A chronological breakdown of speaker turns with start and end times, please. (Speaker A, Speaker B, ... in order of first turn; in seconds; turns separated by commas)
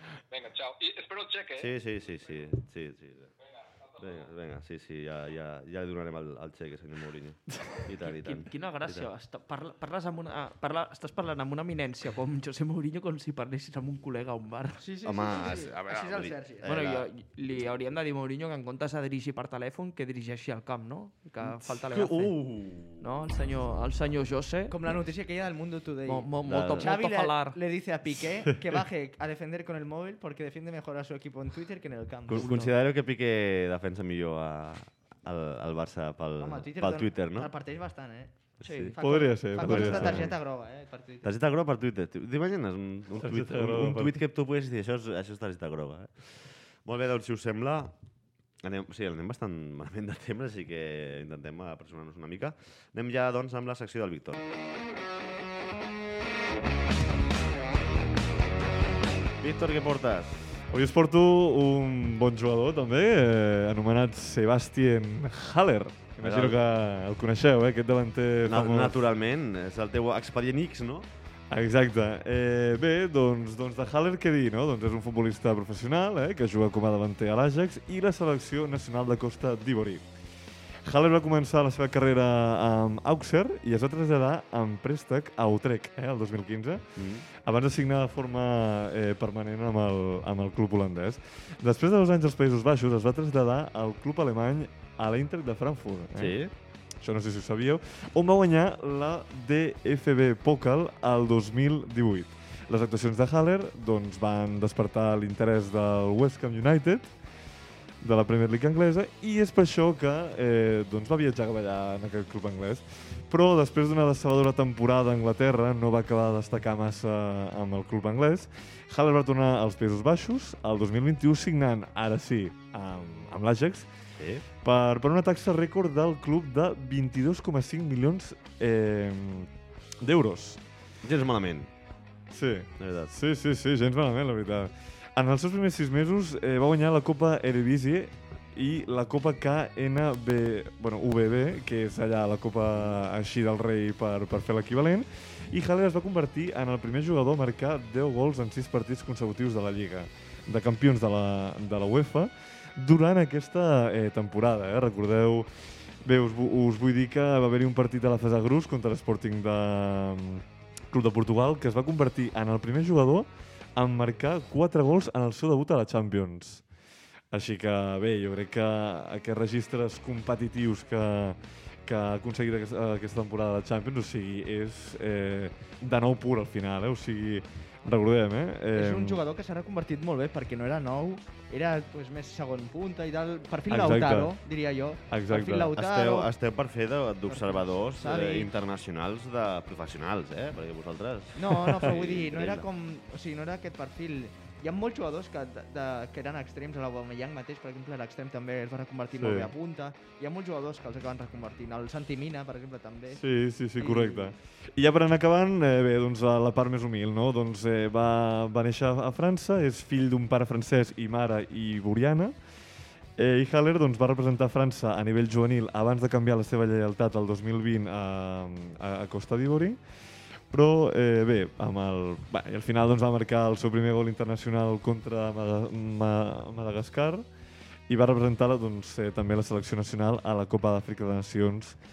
Speaker A: 0.3-1.7, Speaker B: 1.6-3.3, Speaker A: 3.5-4.2, Speaker B: 4.0-9.1, Speaker C: 8.0-14.8, Speaker D: 14.8-16.7, Speaker B: 15.0-17.1, Speaker C: 16.6-22.3, Speaker B: 21.6-23.1, Speaker C: 23.0-24.7, Speaker D: 24.7-32.6, Speaker C: 26.1-27.6, Speaker B: 26.4-26.9, Speaker B: 32.3-37.5, Speaker C: 32.4-32.7, Speaker D: 36.4-41.3, Speaker B: 38.6-39.0, Speaker E: 39.0-40.3, Speaker B: 39.6-40.4, Speaker B: 41.2-47.9, Speaker E: 43.1-44.2, Speaker B: 48.6-54.4, Speaker B: 59.4-60.6, Speaker E: 60.7-69.0, Speaker B: 66.2-66.6, Speaker B: 68.5-71.1, Speaker E: 71.5-80.0, Speaker E: 80.8-96.4, Speaker B: 87.0-87.2, Speaker B: 96.2-96.5, Speaker E: 97.0-107.1, Speaker E: 108.0-123.9, Speaker B: 124.2-124.4, Speaker E: 124.6-130.6, Speaker B: 131.0-131.7, Speaker E: 132.3-155.5, Speaker B: 132.8-133.1, Speaker E: 156.0-166.6, Speaker E: 167.3-179.2, Speaker D: 178.7-186.3, Speaker E: 183.7-184.4, Speaker E: 185.1-185.7, Speaker B: 185.7-192.6, Speaker D: 187.3-188.5, Speaker D: 191.3-203.2, Speaker E: 199.2-199.5, Speaker E: 203.1-212.3, Speaker D: 203.8-204.3, Speaker E: 213.2-219.8, Speaker E: 220.5-227.2, Speaker E: 227.9-231.8